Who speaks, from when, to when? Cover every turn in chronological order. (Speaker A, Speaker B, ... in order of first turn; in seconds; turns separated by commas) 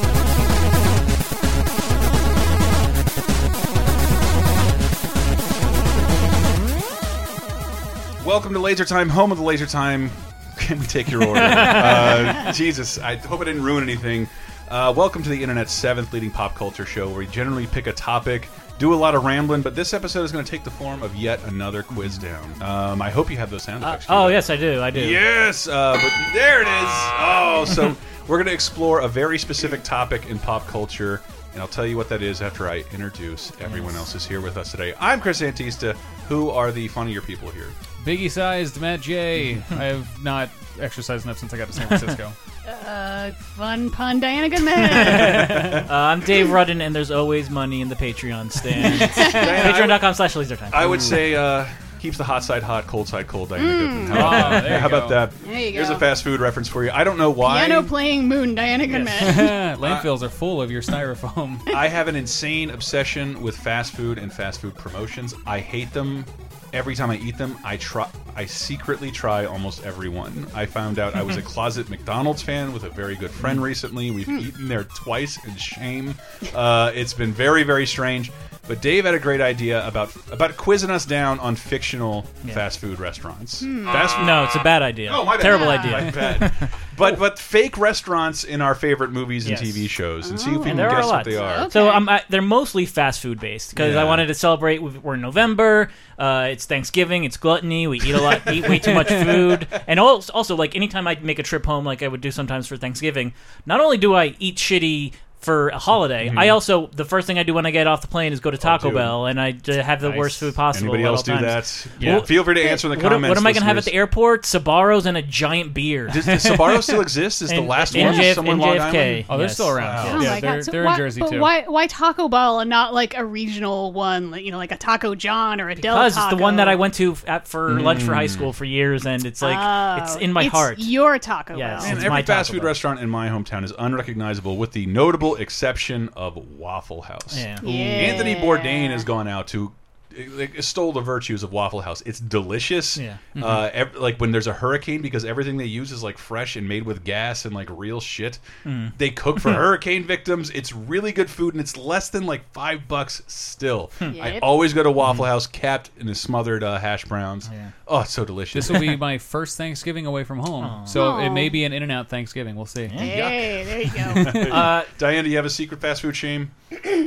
Speaker A: 8.2-37.7, Speaker B: 11.2-12.4, Speaker B: 23.8-25.2, Speaker C: 38.0-42.4, Speaker B: 41.8-42.1, Speaker D: 42.6-45.6, Speaker A: 45.0-45.9, Speaker C: 45.3-45.6, Speaker B: 45.9-51.2, Speaker D: 48.9-49.6, Speaker A: 49.2-50.0, Speaker A: 50.7-57.9, Speaker D: 53.6-54.7, Speaker C: 54.1-55.2, Speaker D: 55.4-56.0, Speaker D: 57.4-59.6, Speaker C: 58.9-61.7, Speaker A: 59.8-60.1, Speaker A: 61.7-84.5, Speaker D: 83.6-84.2, Speaker B: 83.9-86.7, Speaker A: 85.0-91.7, Speaker D: 85.4-86.1, Speaker B: 89.4-89.9, Speaker D: 90.2-92.0, Speaker B: 90.7-116.2, Speaker A: 93.8-94.2, Speaker A: 98.7-99.5, Speaker C: 98.9-99.3, Speaker A: 106.2-106.6, Speaker A: 108.6-109.1, Speaker C: 110.0-110.5, Speaker A: 110.7-113.9, Speaker C: 112.0-112.3, Speaker A: 116.1-120.4, Speaker C: 116.2-117.0, Speaker B: 117.5-120.2, Speaker D: 117.9-118.3, Speaker C: 119.3-121.5, Speaker D: 120.1-126.8, Speaker B: 125.8-130.9, Speaker A: 127.7-128.5, Speaker D: 129.4-132.1, Speaker B: 131.5-132.8, Speaker A: 131.8-148.4, Speaker B: 137.3-138.1, Speaker D: 137.6-139.1, Speaker B: 143.0-143.2, Speaker C: 143.3-143.6, Speaker B: 148.6-149.6, Speaker A: 148.9-159.0, Speaker D: 154.1-154.5, Speaker B: 157.5-157.7, Speaker C: 158.5-163.1, Speaker B: 160.6-160.9, Speaker D: 160.9-161.6, Speaker B: 162.8-163.1, Speaker D: 163.0-164.5, Speaker A: 163.1-163.7, Speaker A: 164.2-166.5, Speaker C: 164.2-164.5, Speaker B: 164.5-164.9